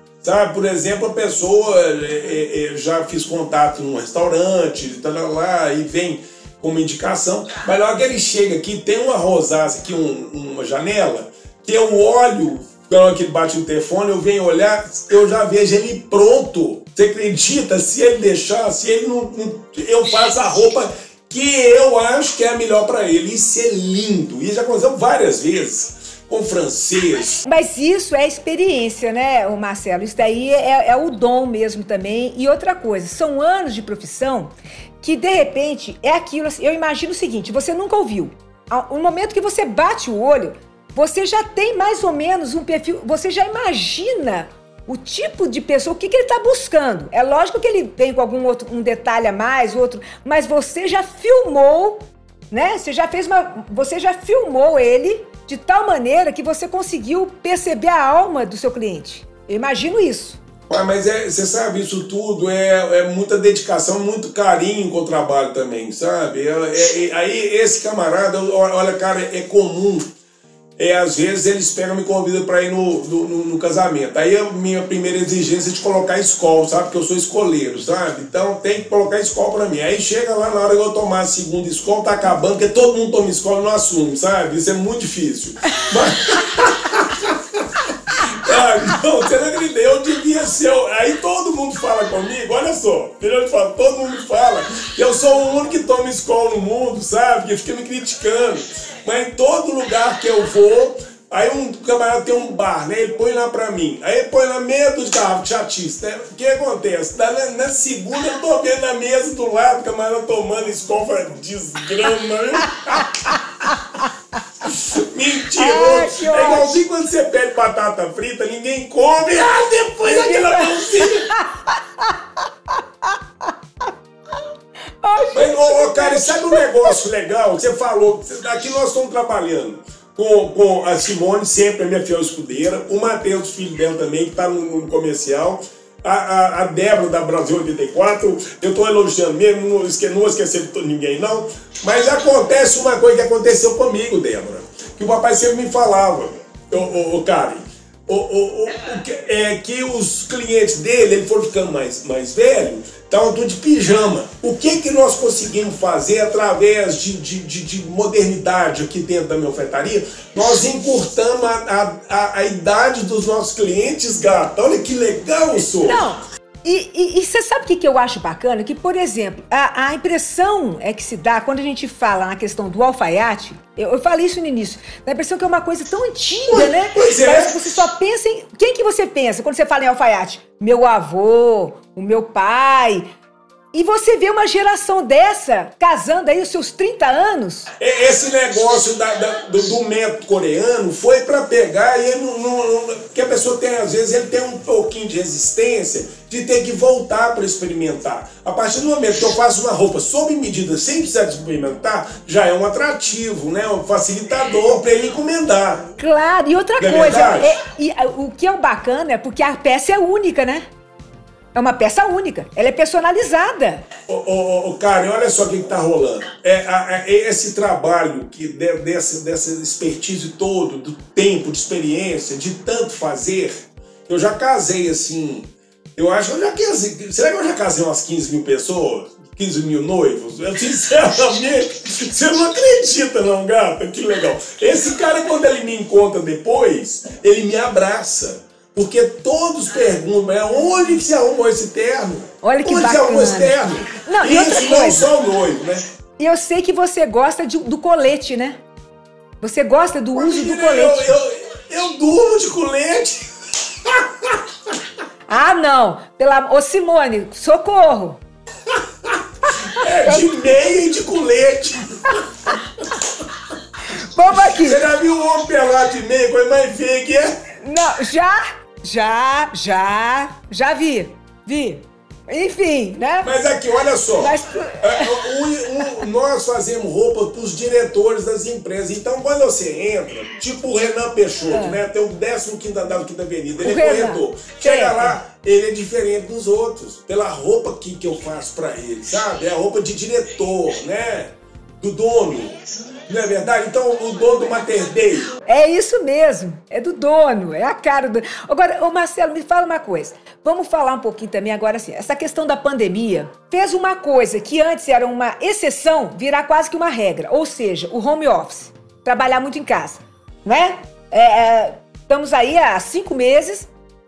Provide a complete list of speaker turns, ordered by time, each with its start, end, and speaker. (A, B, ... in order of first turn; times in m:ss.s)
0:00.2-0:27.4 A
0:27.4-1:00.4 B
1:00.7-1:10.1 A
1:10.8-1:53.4 A
1:54.6-2:01.3 A
1:55.6-1:56.8 B
2:00.0-2:02.8 B
2:05.0-2:07.0 B
2:05.3-2:46.0 A
2:45.8-3:03.1 B
2:56.5-2:57.6 A
3:03.7-3:07.7 B
3:07.8-3:25.9 A
3:26.0-3:30.6 B
3:26.8-3:27.6 A
3:31.6-3:33.8 B
3:34.1-4:05.8 A
4:02.4-4:05.1 B
4:06.2-4:08.6 B
4:09.4-4:11.2 B
4:10.1-4:14.4 A
4:15.3-4:18.2 B
4:19.1-4:22.5 A
4:23.9-4:24.8 B
4:24.6-4:27.4 A
4:27.6-4:33.3 B
4:33.2-4:55.4 A
4:34.2-4:36.0 B
4:41.5-4:41.8 B
4:43.6-4:45.2 B
4:55.5-5:13.7 B